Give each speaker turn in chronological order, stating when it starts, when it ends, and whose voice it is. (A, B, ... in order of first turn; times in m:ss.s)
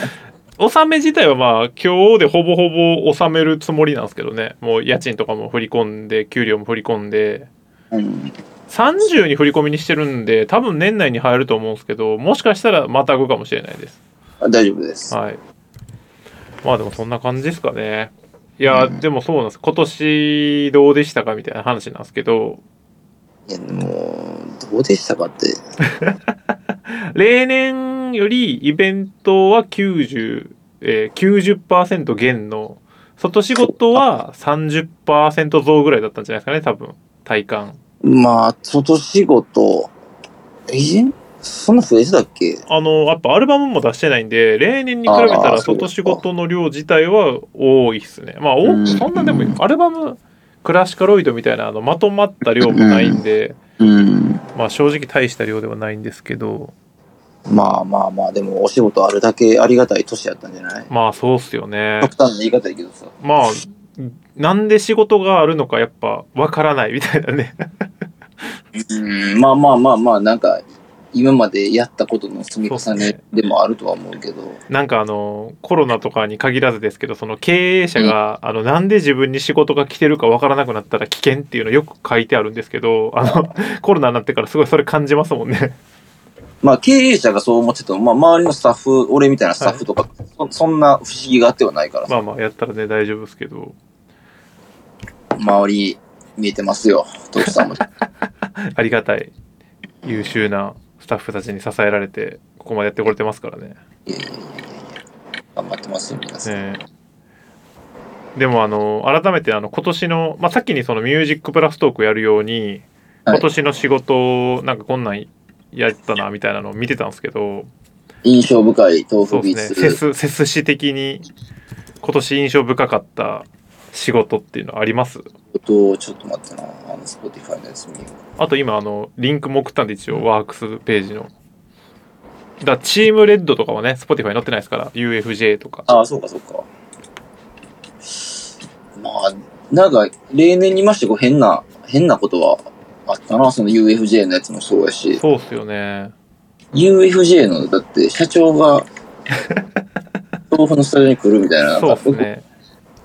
0:00.6-0:07.5 A
0:07.9-0:08.3 B
0:08.7-0:14.0 A
0:14.4-0:15.1 B
0:15.1-0:15.4 A
0:16.6-0:22.6 A
0:18.7-0:19.0 B
0:23.5-0:25.6 B
0:26.9-0:37.8 A
0:38.0-0:39.9 B
0:40.7-0:42.6 B
0:42.7-0:53.6 A
0:45.1-0:46.2 B
0:48.6-0:49.6 B
0:52.6-0:53.2 B
0:53.8-0:54.4 B
0:54.5-0:56.7 A
0:57.5-1:00.9 B
1:00.9-1:02.1 A
1:02.0-1:03.1 B
1:03.2-1:07.6 A
1:08.7-1:14.6 B
1:12.7-1:13.2 A
1:14.7-1:25.8 A
1:23.2-1:23.5 B
1:26.6-1:32.1 B
1:29.6-1:29.8 A
1:32.1-1:33.7 A
1:35.4-1:37.8 B
1:38.6-1:39.3 A
1:40.0-1:43.8 A
1:44.1-1:44.9 B
1:45.5-1:46.6 B
1:46.4-1:46.8 A
1:48.4-1:57.7 A
1:58.2-2:00.0 B
1:59.3-2:01.2 A
2:02.0-2:05.3 A
2:05.5-2:08.1 B
2:08.4-2:11.3 A
2:12.6-2:15.9 A
2:15.9-2:16.6 B
2:19.0-2:25.2 B
2:25.2-2:26.1 A
2:26.7-2:28.9 B
2:30.5-2:32.3 B
2:31.8-2:32.4 A